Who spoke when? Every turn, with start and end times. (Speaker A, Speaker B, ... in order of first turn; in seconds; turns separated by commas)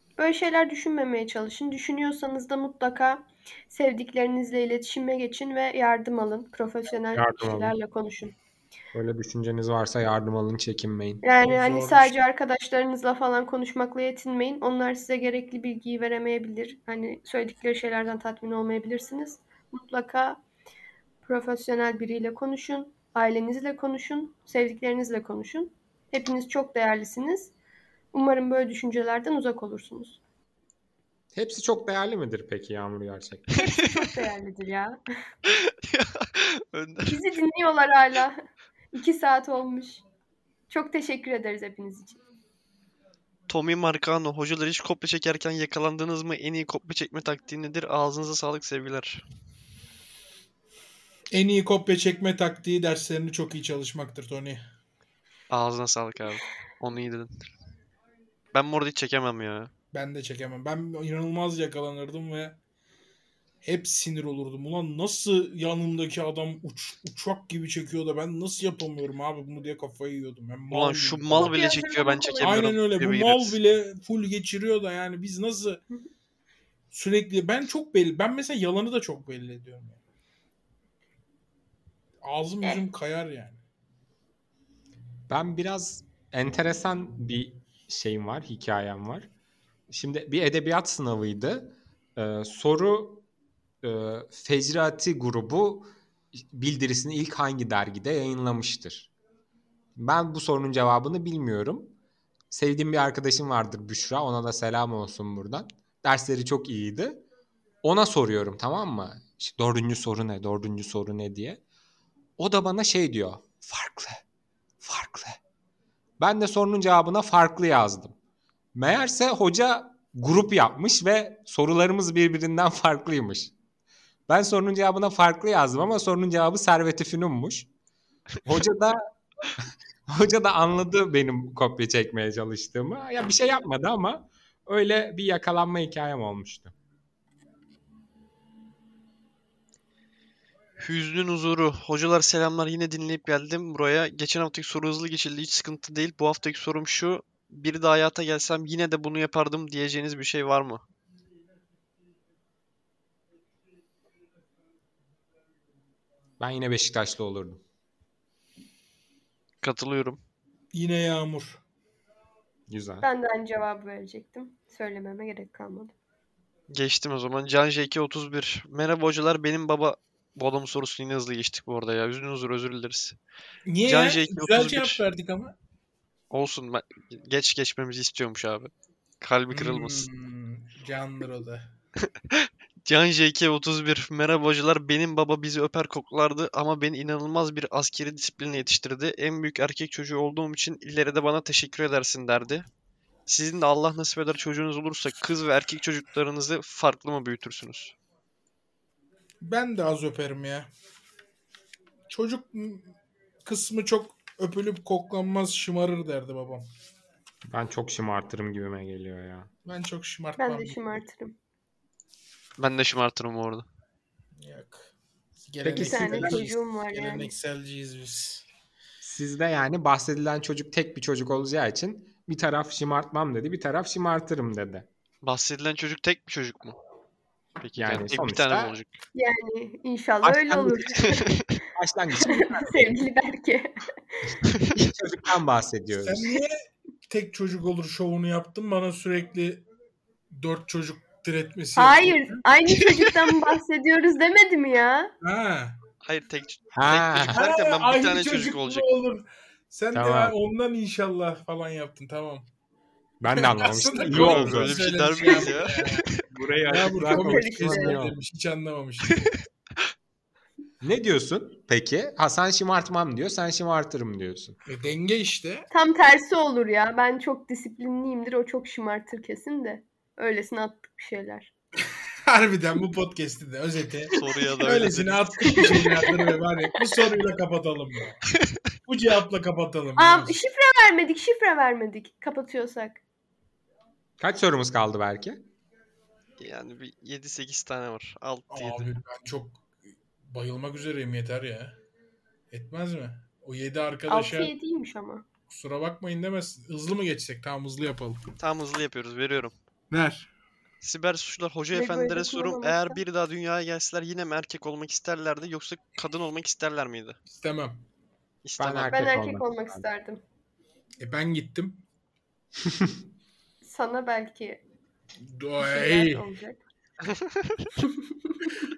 Speaker A: 0.2-8.4, Speaker B: 7.1-7.8, Speaker B: 8.9-11.2, Speaker A: 11.2-20.4, Speaker C: 11.4-12.2, Speaker A: 21.2-27.5, Speaker A: 28.1-30.2, Speaker B: 31.3-33.5, Speaker A: 33.6-35.0, Speaker D: 35.5-37.2, Speaker A: 37.1-38.4, Speaker A: 38.9-40.0, Speaker A: 40.7-42.2, Speaker D: 43.5-49.2, Speaker C: 51.3-54.6, Speaker D: 55.5-57.3, Speaker D: 58.5-59.7, Speaker C: 59.9-62.6, Speaker C: 63.6-71.6, Speaker D: 70.7-73.6, Speaker A: 71.4-72.7, Speaker C: 72.4-75.8, Speaker C: 76.9-80.0, Speaker C: 82.2-83.6, Speaker B: 85.3-89.3, Speaker B: 89.9-93.2, Speaker B: 93.8-99.1, Speaker B: 100.0-102.0, Speaker B: 102.5-107.2, Speaker B: 107.8-111.6, Speaker B: 112.4-114.2, Speaker B: 114.8-115.4, Speaker B: 116.2-118.2, Speaker B: 118.8-123.5, Speaker B: 124.3-127.7, Speaker B: 128.4-129.0, Speaker B: 129.6-136.7, Speaker D: 140.8-150.9, Speaker B: 156.4-157.6, Speaker D: 159.6-160.2, Speaker C: 160.7-161.6, Speaker B: 162.7-163.1, Speaker A: 163.0-165.9, Speaker D: 166.7-173.2, Speaker C: 173.7-175.6, Speaker D: 173.8-175.0, Speaker D: 176.3-180.1, Speaker C: 179.5-181.7, Speaker D: 182.3-192.7, Speaker D: 193.3-197.9, Speaker C: 199.4-200.7, Speaker C: 202.1-202.9, Speaker C: 203.4-206.7, Speaker B: 207.4-209.5, Speaker C: 209.7-211.0, Speaker A: 210.4-211.3, Speaker D: 212.6-213.7, Speaker C: 214.4-214.9, Speaker C: 215.5-218.4, Speaker B: 215.6-216.5, Speaker A: 215.8-217.3, Speaker B: 219.0-224.9, Speaker D: 225.2-226.8, Speaker D: 227.6-228.9, Speaker B: 227.8-228.8, Speaker A: 229.1-231.3, Speaker B: 230.2-233.0, Speaker D: 231.1-231.4, Speaker A: 232.2-234.4, Speaker D: 234.5-234.8, Speaker B: 234.7-236.3, Speaker C: 235.9-239.7, Speaker C: 240.3-242.4, Speaker A: 241.8-245.1, Speaker D: 242.7-243.1, Speaker C: 245.2-245.8, Speaker D: 246.0-248.9, Speaker B: 246.8-247.4, Speaker C: 247.3-252.5, Speaker B: 249.9-250.4, Speaker B: 253.2-255.4, Speaker C: 253.3-256.1, Speaker D: 254.1-256.2, Speaker B: 256.3-258.2, Speaker C: 256.7-259.4, Speaker A: 257.0-258.0, Speaker B: 260.8-264.6, Speaker C: 264.7-265.7, Speaker A: 265.7-271.5, Speaker C: 272.3-278.2, Speaker D: 274.1-275.7, Speaker A: 275.5-276.3, Speaker D: 278.3-278.6, Speaker C: 278.9-280.4, Speaker A: 280.0-283.0, Speaker B: 284.2-285.4, Speaker D: 286.4-289.0, Speaker C: 288.5-289.7, Speaker C: 290.2-291.8, Speaker C: 292.5-294.5, Speaker A: 294.1-295.2, Speaker C: 295.5-298.2, Speaker D: 298.4-299.5, Speaker C: 299.9-300.3, Speaker D: 300.8-307.2, Speaker A: 301.7-303.0, Speaker C: 307.3-307.8, Speaker D: 308.4-309.0, Speaker B: 308.6-309.9, Speaker A: 308.9-310.2, Speaker C: 311.0-311.8, Speaker B: 312.7-312.9, Speaker A: 313.6-314.6, Speaker C: 315.2-316.3, Speaker A: 315.6-316.6, Speaker D: 317.0-317.7, Speaker A: 317.8-318.4